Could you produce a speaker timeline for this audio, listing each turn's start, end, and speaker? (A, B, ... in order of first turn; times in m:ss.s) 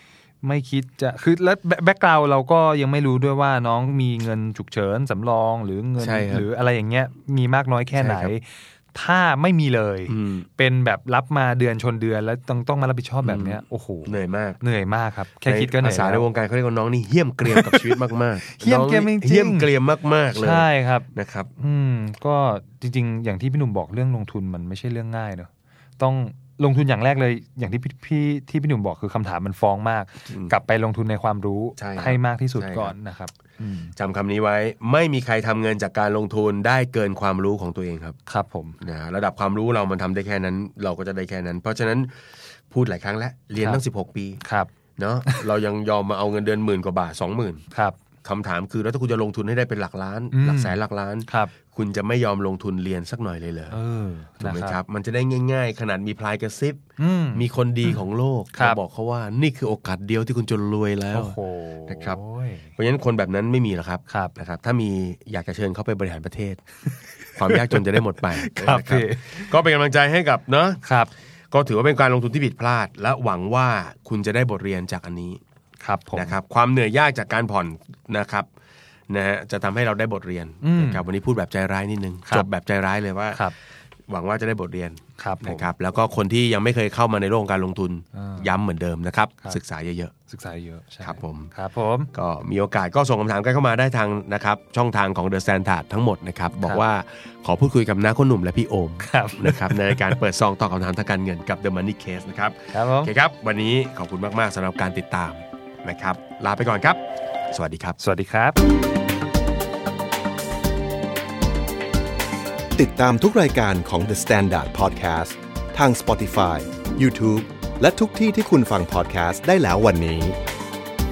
0:00.4-0:16.2 A
0:06.0-0:06.5 B
0:07.9-0:08.3 B
0:10.1-0:10.5 B
0:13.2-0:14.6 B
0:15.4-0:21.5 B
0:17.4-0:19.7 A
0:20.3-0:33.9 A
0:31.8-0:32.9 B
0:34.0-0:38.2 B
0:38.2-0:38.8 A
0:38.8-0:42.1 B
0:42.7-0:44.4 B
0:44.4-0:44.7 A
0:45.0-0:47.6 B
0:47.7-0:48.0 A
0:48.2-0:53.8 B
0:50.3-0:51.5 A
0:53.7-0:54.8 A
0:54.4-0:56.8 B
0:57.0-0:58.0 A
0:57.3-1:02.2 B
0:58.5-0:58.8 A
1:01.1-1:02.7 A
1:02.8-1:06.6 B
1:04.1-1:04.3 A
1:07.4-1:10.8 B
1:07.4-1:09.5 A
1:10.8-1:11.1 A
1:11.5-1:15.4 B
1:15.8-1:16.4 A
1:16.1-1:18.5 B
1:19.1-1:23.4 B
1:20.6-1:21.0 A
1:24.1-1:30.1 B
1:25.2-1:25.6 A
1:28.1-1:28.5 A
1:30.3-1:32.1 A
1:31.0-1:31.5 B
1:32.1-1:47.0 B
1:39.0-1:40.2 A
1:42.7-1:43.1 A
1:47.5-1:48.0 B
1:48.0-1:48.6 A
1:52.8-2:00.4 C